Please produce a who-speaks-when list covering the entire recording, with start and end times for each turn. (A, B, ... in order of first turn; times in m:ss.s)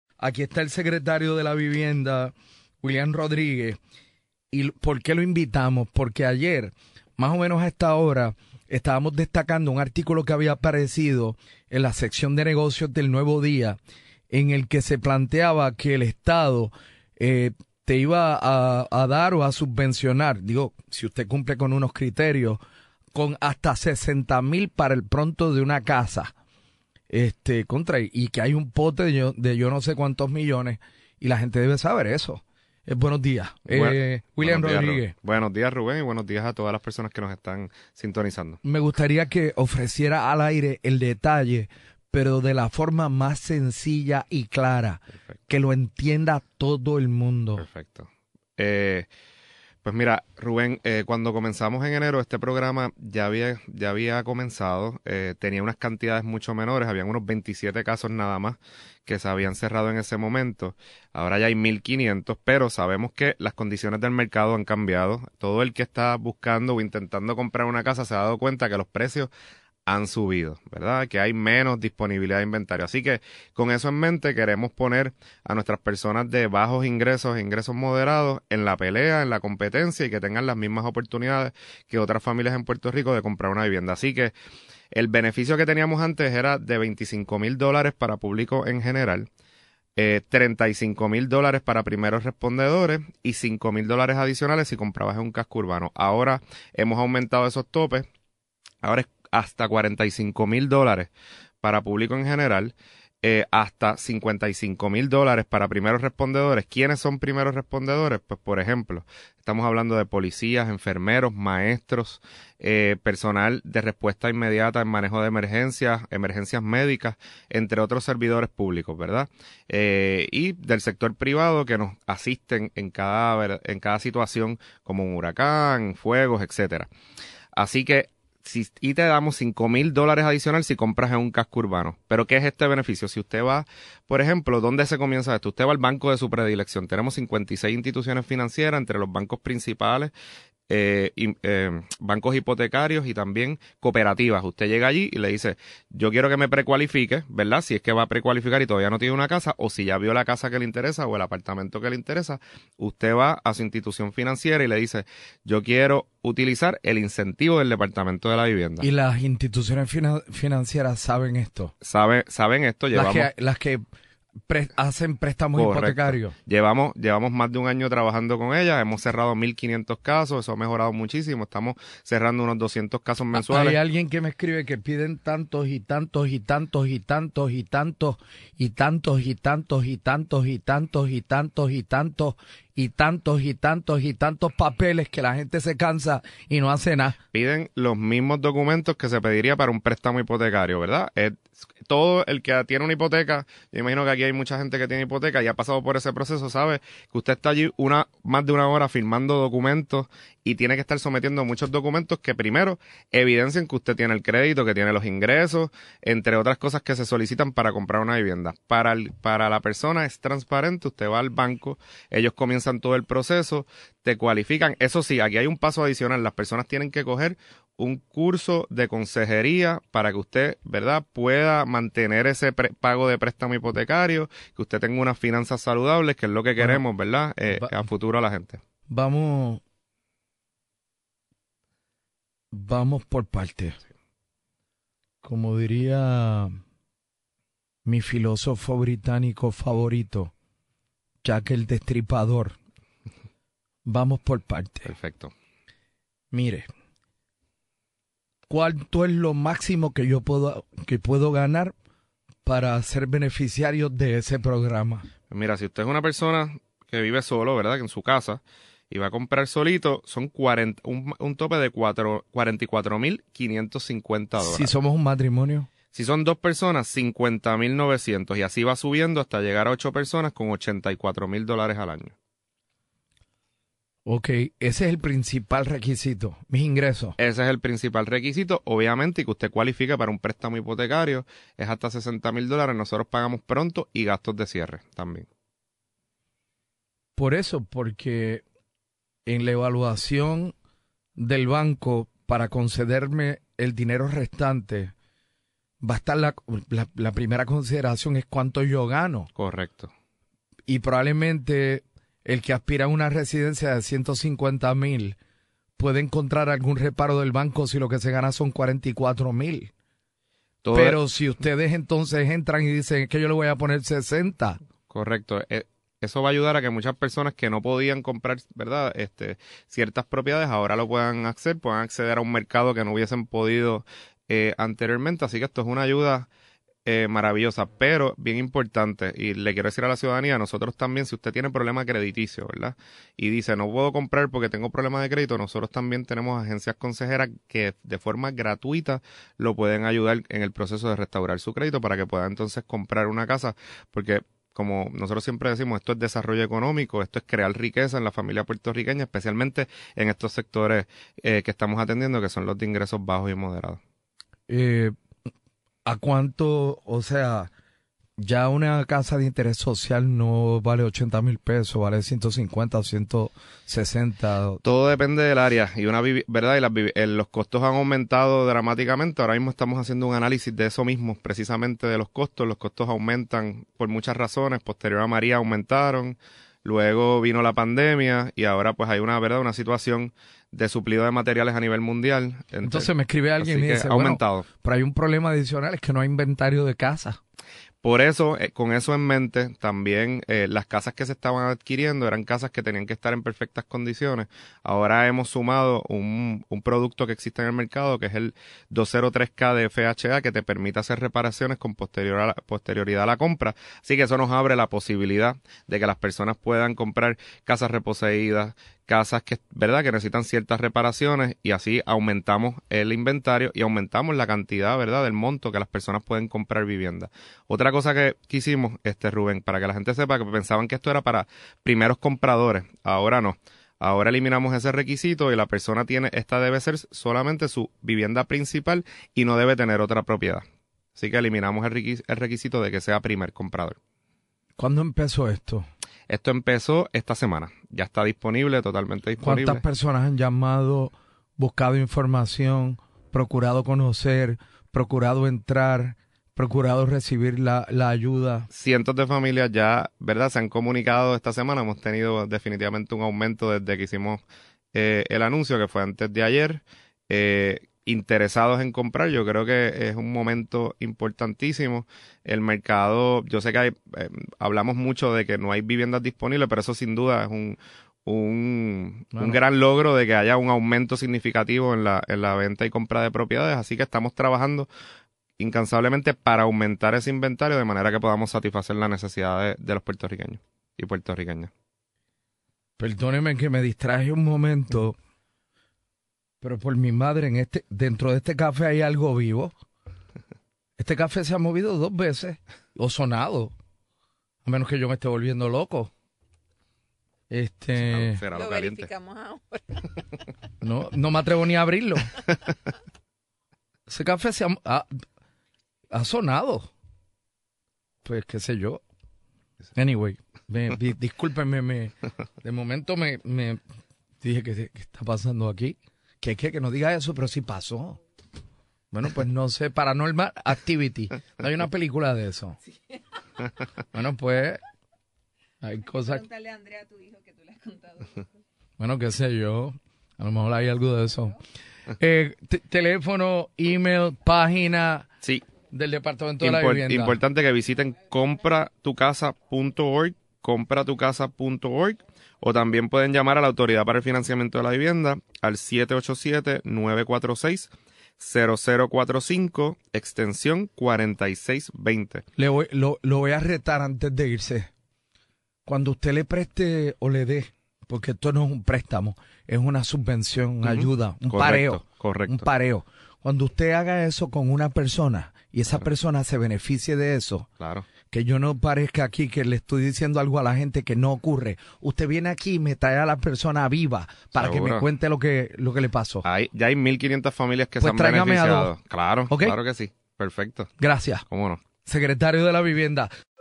0:00.2-0:03.8 A
0:04.5-0:13.8 A
0:14.3-0:22.6 A
0:23.1-0:26.3 A
0:27.1-0:35.1 A
0:33.7-0:38.6 B
0:38.6-0:47.6 A
0:47.6-0:49.1 B
0:49.8-1:09.3 B
1:09.9-1:24.4 B
1:24.9-1:29.3 B
1:30.0-1:38.1 B
1:38.8-1:41.1 B
1:41.6-2:06.9 B
2:07.6-2:20.1 B
2:20.7-2:38.9 B
2:38.8-2:41.7 A
2:41.8-2:43.3 B
2:42.9-2:43.8 A
2:44.5-2:46.4 A
2:45.5-2:53.8 B
2:53.3-3:07.2 A
3:07.3-3:48.6 B
3:46.6-3:46.8 A
3:48.9-3:49.6 A
3:52.5-3:53.8 A
3:55.2-3:56.6 A
3:57.8-4:00.3 A
4:01.2-4:02.6 A
4:03.9-4:04.9 A
4:04.9-4:05.3 B
4:06.3-4:06.7 A
4:08.5-4:11.7 A
4:12.4-4:15.1 A
4:15.3-4:24.7 B
4:24.4-4:25.7 A
4:25.9-4:32.1 B
4:34.1-4:37.2 A
4:37.2-4:45.3 B
4:47.2-4:48.4 A
4:49.3-4:50.5 A
4:51.2-4:54.9 A
4:55.8-4:59.3 A
4:59.4-4:59.9 B
5:00.7-5:05.2 A
5:05.8-5:09.7 A
5:10.6-5:11.0 B
5:10.7-5:14.6 A
5:14.9-5:26.3 B
5:26.9-5:53.8 B
5:54.5-5:55.0 A
5:55.8-5:57.5 A
5:58.2-6:04.6 A
6:04.6-6:24.5 B
6:22.6-6:27.2 A
6:27.8-7:10.4 B
7:11.0-7:13.8 B
7:14.6-7:15.7 A
7:16.1-7:19.6 B
7:19.2-7:28.5 A
7:28.5-7:34.2 B
7:34.7-7:54.7 B
7:49.1-7:49.4 A
7:55.4-8:01.5 B
8:02.8-8:05.0 A
8:06.4-8:09.5 A
8:10.8-8:13.6 A
8:14.4-8:15.9 A
8:17.3-8:18.2 A
8:17.8-8:18.9 B
8:18.3-8:19.8 C
8:20.6-8:22.2 A
8:23.9-8:24.9 A
8:25.9-8:26.7 A
8:28.0-8:28.8 A
8:29.8-8:33.6 A
8:34.2-8:38.0 A
8:38.9-8:42.6 A
8:43.9-8:44.6 A
8:45.6-8:46.3 A
8:46.1-8:48.2 C
8:48.8-8:51.4 A
8:52.0-8:55.1 A
8:55.7-8:57.2 A
8:56.4-9:12.2 B
9:12.4-9:14.7 A
9:15.7-9:27.5 A
9:20.6-9:22.5 B
9:27.6-9:27.9 B
9:28.1-9:36.2 A
9:34.4-9:34.9 B
9:36.2-9:40.7 B
9:37.8-9:38.7 A
9:39.3-9:39.6 A
9:40.8-9:41.2 A
9:41.3-9:41.6 B
9:41.8-9:43.1 A